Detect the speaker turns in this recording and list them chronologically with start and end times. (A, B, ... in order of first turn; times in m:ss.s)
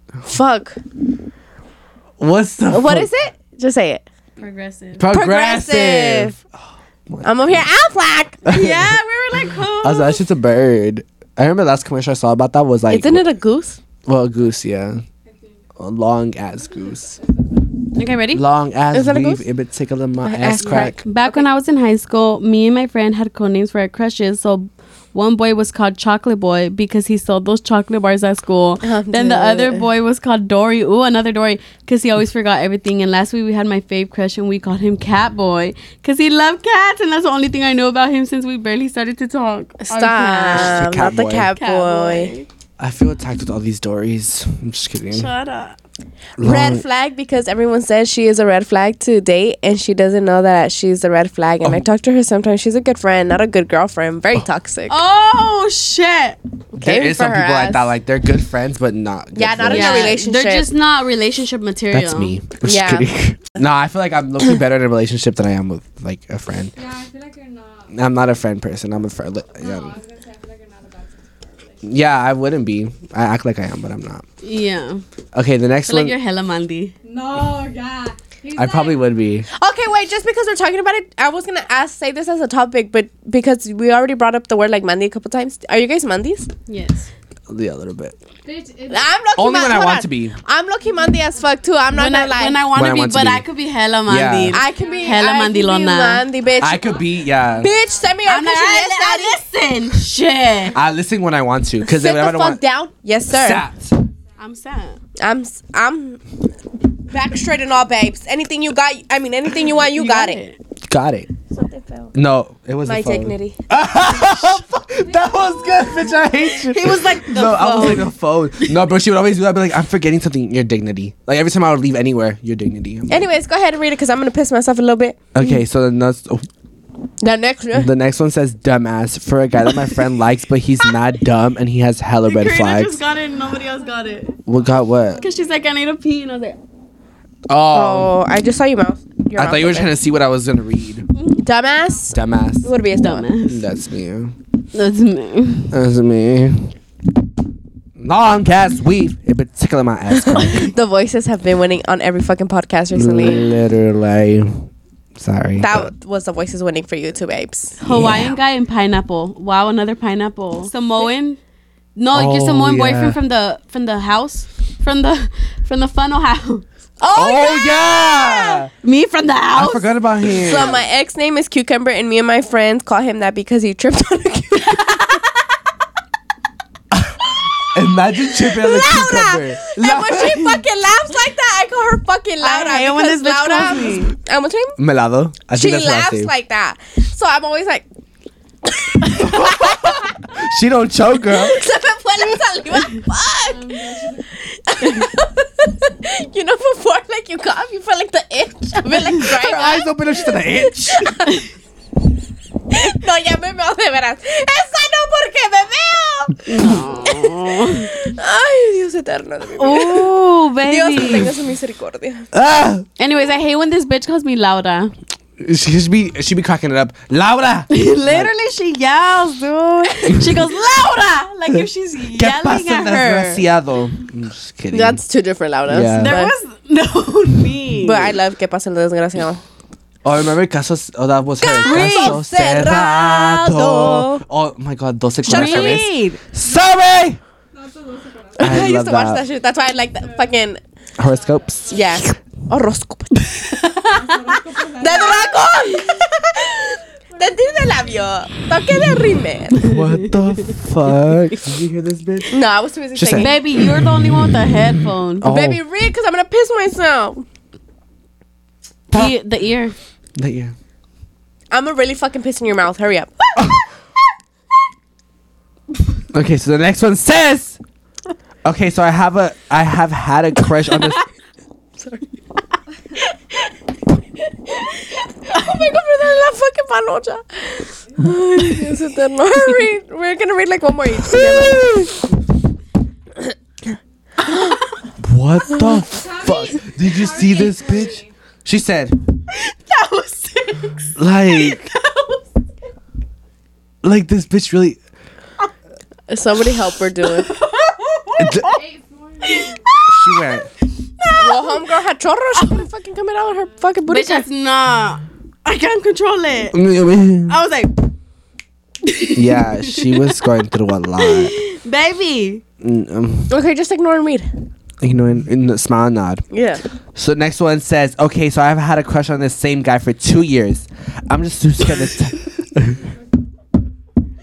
0:00.2-0:00.8 A
0:02.2-0:03.1 B
0:02.7-0:04.0 A
0:04.4-0:05.0 C
0:05.0-0:06.5 B
0:05.1-0:06.3 A
0:07.1-0:07.6 B
0:07.2-0:08.4 A
0:08.4-0:09.0 B
0:08.4-0:10.2 C
0:09.8-0:13.2 B
0:12.9-0:13.8 A
0:14.0-0:15.0 B
0:15.2-0:15.6 D
0:15.8-0:17.2 B
0:16.6-0:17.9 D
0:17.9-0:18.4 C
0:18.3-0:21.0 B
0:18.9-0:19.4 A
0:20.2-0:21.4 A
0:20.6-0:40.9 C
0:28.8-0:29.9 A
0:39.9-0:42.3 A
0:40.5-0:41.5 B
0:41.6-0:42.5 C
0:42.8-0:45.3 B
0:45.1-0:45.8 C
0:46.4-0:46.8 B
0:46.4-0:55.0 A
0:54.9-0:56.4 C
0:56.7-1:00.2 B
0:56.8-0:57.9 A
0:59.4-1:00.7 A
0:59.6-1:02.3 C
1:01.9-1:06.7 B
1:02.6-1:03.1 A
1:06.7-1:08.1 D
1:07.9-1:10.0 B
1:09.4-1:11.8 D
1:11.8-1:14.2 B
1:14.4-1:15.0 C
1:15.3-1:16.1 B
1:15.9-1:16.9 C
1:17.0-1:19.1 D
1:18.6-1:19.5 B
1:19.5-1:26.5 A
1:26.7-1:27.1 C
1:27.5-1:28.1 B
1:28.4-1:29.3 D
1:28.9-1:32.7 A
1:29.4-1:30.4 B
1:30.8-1:31.9 D
1:31.9-1:36.2 C
1:32.7-1:33.4 B
1:34.0-1:34.6 B
1:34.5-1:39.4 A
1:34.7-1:35.5 D
1:36.6-1:38.3 D
1:36.6-1:37.7 B
1:38.2-1:40.8 C
1:40.7-1:42.6 B
1:41.8-1:43.6 A
1:43.3-1:44.0 B
1:44.4-1:45.0 C
1:45.2-1:46.2 A
1:47.1-1:50.4 A
1:49.8-1:50.5 C
1:50.8-1:51.3 B
1:51.5-1:52.1 A
1:52.1-2:03.3 B
1:52.8-1:53.6 A
1:55.0-1:56.7 D
1:56.6-1:58.1 C
2:03.1-2:05.2 A
2:05.3-2:06.5 B
2:07.2-2:07.9 A
2:07.7-2:13.0 B
2:12.2-2:14.3 C
2:13.8-2:15.7 D
2:14.4-2:15.2 B
2:15.2-2:16.6 C
2:17.5-2:18.2 B
2:17.7-2:20.0 A
2:19.3-2:21.0 B
2:21.4-2:23.3 A
2:21.6-2:22.2 D
2:22.1-2:22.7 B
2:23.0-2:23.6 C
2:23.5-2:24.3 B
2:24.7-2:25.7 C
2:25.7-2:26.7 B
2:28.0-2:30.7 B
2:30.1-2:33.5 A
2:32.9-2:35.9 B
2:35.6-2:37.8 A
2:37.8-2:41.4 C
2:37.9-2:38.3 B
2:42.0-2:46.6 C
2:42.1-2:43.2 B
2:47.0-2:48.6 A
2:47.1-2:48.7 B
2:48.8-2:49.9 C
2:49.5-2:50.8 B
2:50.4-2:55.3 A
2:56.9-3:00.6 B
2:58.3-3:04.8 A
3:02.4-3:04.1 C
3:04.8-3:06.3 B
3:05.5-3:07.9 A
3:08.7-3:10.1 A
3:09.1-3:11.6 B
3:11.3-3:13.8 A
3:13.4-3:14.4 D
3:14.5-3:21.4 A
3:19.2-3:21.1 B
3:22.7-3:32.3 A
3:26.4-3:27.9 C
3:29.6-3:31.3 C
3:32.3-3:32.8 B
3:33.0-3:34.9 C
3:35.4-3:38.3 B
3:37.7-3:43.4 C
3:42.1-3:45.0 B
3:44.7-3:46.3 A
3:45.7-3:46.2 B
3:45.9-3:48.2 C
3:47.8-3:49.4 A
3:50.0-3:57.2 B
3:51.4-3:54.2 A
3:51.6-3:52.2 C
3:55.2-3:56.1 A
3:55.2-3:56.2 C
3:56.4-3:56.7 D
3:57.5-3:58.6 D
3:58.4-4:00.6 A
3:58.4-3:59.2 B
3:59.7-4:00.3 D
4:01.0-4:01.7 B
4:01.0-4:02.0 D
4:01.7-4:03.2 A
4:03.8-4:06.1 D
4:04.8-4:09.7 A
4:07.1-4:08.4 D
4:09.6-4:10.6 C
4:09.6-4:12.4 B
4:12.3-4:13.4 A
4:12.9-4:14.4 B
4:13.1-4:15.3 C
4:15.2-4:15.6 B
4:15.2-4:17.2 A
4:18.9-4:19.7 C
4:20.2-4:20.5 B
4:21.5-4:23.6 A
4:26.1-4:27.6 B
4:28.4-4:31.0 B
4:31.8-4:32.0 A
4:34.5-4:41.9 A
4:37.9-4:38.2 D
4:41.2-4:41.8 B
4:44.3-4:44.6 A
4:45.0-4:49.0 B
4:45.8-4:48.1 D
4:49.3-4:52.2 C
4:51.0-4:51.7 B
4:53.8-4:54.8 B
4:56.1-4:57.3 A
4:57.0-4:58.6 C
4:58.2-4:58.5 B
4:58.5-4:59.7 D
4:59.2-5:00.4 C
4:59.9-5:00.5 B
5:01.0-5:01.8 C
5:01.2-5:04.2 A
5:02.4-5:02.6 C
5:03.4-5:03.7 D
5:03.9-5:06.6 C
5:06.5-5:07.4 B
5:07.3-5:07.8 C
5:08.8-5:10.2 C
5:09.1-5:11.3 B
5:11.0-5:12.4 C
5:12.6-5:13.3 B
5:13.3-5:14.3 A
5:14.8-5:16.2 B
5:16.3-5:16.6 A
5:16.9-5:22.8 B
5:22.7-5:23.0 D